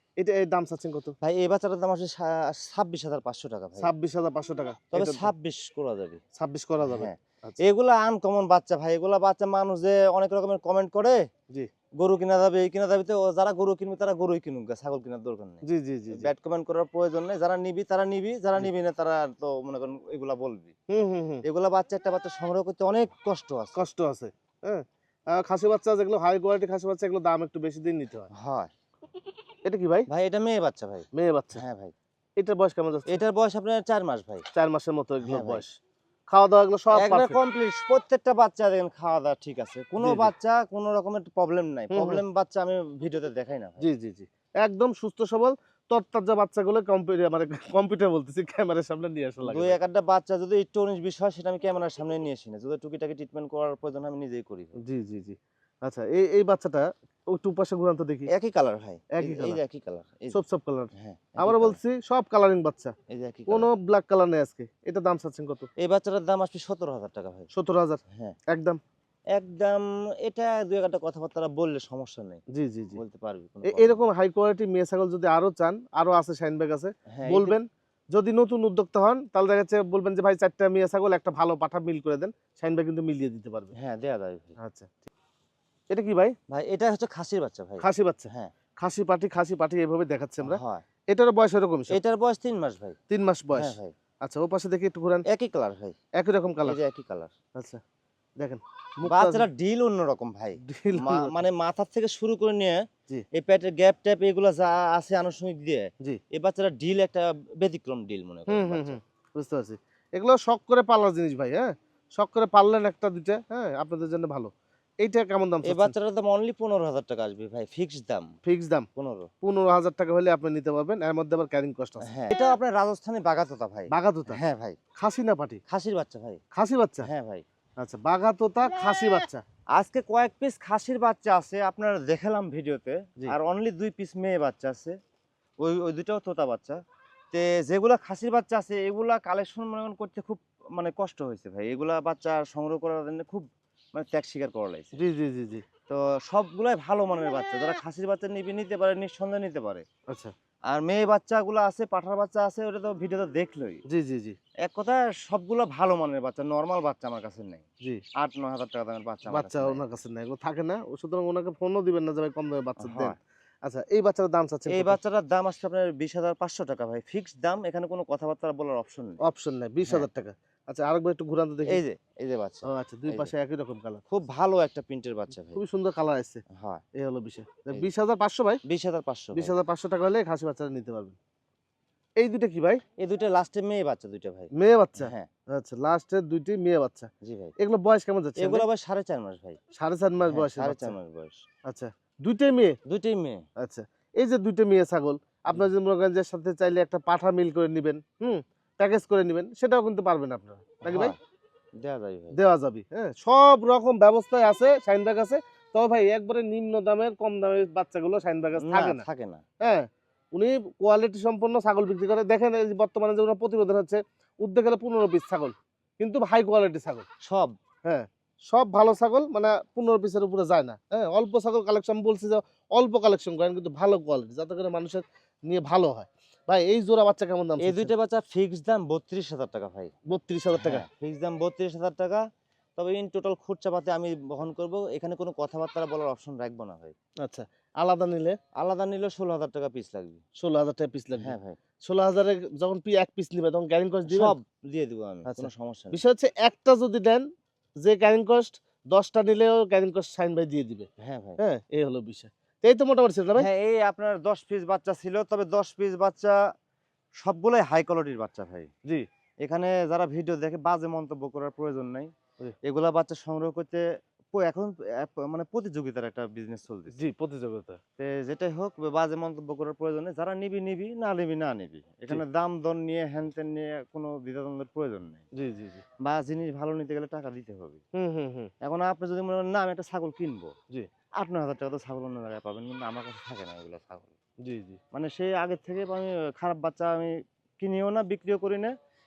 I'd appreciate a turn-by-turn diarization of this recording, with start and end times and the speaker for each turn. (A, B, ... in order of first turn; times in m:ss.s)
0:00.2-0:01.2 A
0:01.2-0:03.9 B
0:03.8-0:05.3 A
0:04.9-0:06.2 B
0:06.4-0:07.6 A
0:06.8-0:11.2 B
0:12.0-0:20.7 B
0:15.6-0:16.3 A
0:20.9-0:21.4 A
0:21.4-0:23.8 B
0:23.8-0:28.3 A
0:28.3-0:28.7 B
0:29.6-0:30.1 A
0:30.1-0:31.9 B
0:31.1-0:31.6 A
0:32.4-0:33.2 A
0:33.1-0:34.4 B
0:34.5-0:35.8 A
0:35.2-0:35.6 B
0:36.3-0:37.4 A
0:37.0-0:43.8 B
0:40.0-0:40.3 A
0:41.9-0:42.2 A
0:43.8-0:49.8 A
0:49.4-0:54.8 B
0:54.8-0:58.3 A
0:58.3-1:00.4 B
0:59.1-0:59.6 A
1:00.3-1:03.0 A
1:01.0-1:01.8 B
1:03.1-1:03.7 B
1:03.5-1:05.7 A
1:05.8-1:07.5 B
1:07.5-1:08.8 A
1:09.3-1:12.4 B
1:12.5-1:13.0 A
1:13.0-1:14.0 B
1:13.7-1:23.7 A
1:17.1-1:17.6 B
1:23.8-1:24.6 B
1:24.6-1:25.1 A
1:25.9-1:26.4 A
1:26.5-1:28.5 B
1:27.8-1:30.6 A
1:30.4-1:30.8 B
1:31.1-1:32.0 A
1:31.9-1:33.0 B
1:33.1-1:35.3 A
1:33.5-1:34.0 B
1:35.3-1:36.0 B
1:36.2-1:36.8 A
1:36.6-1:37.3 B
1:37.6-1:37.8 A
1:38.4-1:39.5 A
1:39.0-1:49.0 B
1:40.6-1:41.3 A
1:48.5-1:55.9 A
1:55.6-1:58.3 B
1:58.4-1:58.9 A
1:59.0-1:59.3 B
1:59.4-2:02.1 A
2:02.1-2:04.8 B
2:03.9-2:04.4 A
2:05.0-2:05.6 A
2:05.7-2:06.4 B
2:06.5-2:07.1 A
2:07.0-2:07.4 B
2:07.8-2:09.4 A
2:09.8-2:15.0 B
2:15.6-2:16.8 B
2:17.3-2:24.9 B
2:25.0-2:25.6 A
2:25.9-2:29.8 B
2:30.7-2:33.8 B
2:33.9-2:34.4 A
2:34.6-2:37.6 B
2:38.2-2:39.8 B
2:39.3-2:45.0 A
2:42.8-2:43.2 B
2:44.7-2:49.2 B
2:49.2-2:51.8 A
2:51.7-2:53.3 B
2:52.6-2:54.0 A
2:54.1-2:55.6 B
2:55.5-2:56.4 A
2:56.5-2:56.8 B
2:57.0-2:58.6 A
2:58.7-2:59.6 B
2:59.4-3:01.2 A
3:02.2-3:02.8 A
3:03.0-3:05.3 B
3:04.6-3:08.7 A
3:07.2-3:07.5 B
3:08.4-3:09.6 B
3:09.8-3:11.0 A
3:10.3-3:11.4 B
3:11.7-3:12.8 A
3:12.9-3:13.4 B
3:13.6-3:21.1 A
3:20.8-3:21.2 B
3:21.8-3:22.4 B
3:22.3-3:29.0 A
3:28.6-3:29.4 B
3:29.6-3:37.1 A
3:37.2-3:37.6 B
3:37.9-3:47.9 A
3:47.6-3:49.9 B
3:50.1-3:50.8 A
3:50.6-3:52.2 B
3:52.8-3:57.0 B
3:57.2-3:58.4 A
3:58.6-4:00.2 B
4:00.4-4:04.3 A
4:01.2-4:01.6 B
4:04.1-4:06.0 B
4:05.3-4:07.2 A
4:07.8-4:10.9 A
4:11.0-4:11.4 B
4:11.4-4:13.5 A
4:13.4-4:16.4 B
4:17.2-4:18.7 B
4:19.4-4:22.1 B
4:22.6-4:27.0 B
4:26.9-4:27.8 A
4:28.0-4:35.2 B
4:35.4-4:35.8 A
4:36.0-4:37.8 B
4:38.0-4:38.5 A
4:38.6-4:40.5 B
4:41.2-4:44.1 B
4:44.4-4:44.8 A
4:44.9-4:48.7 B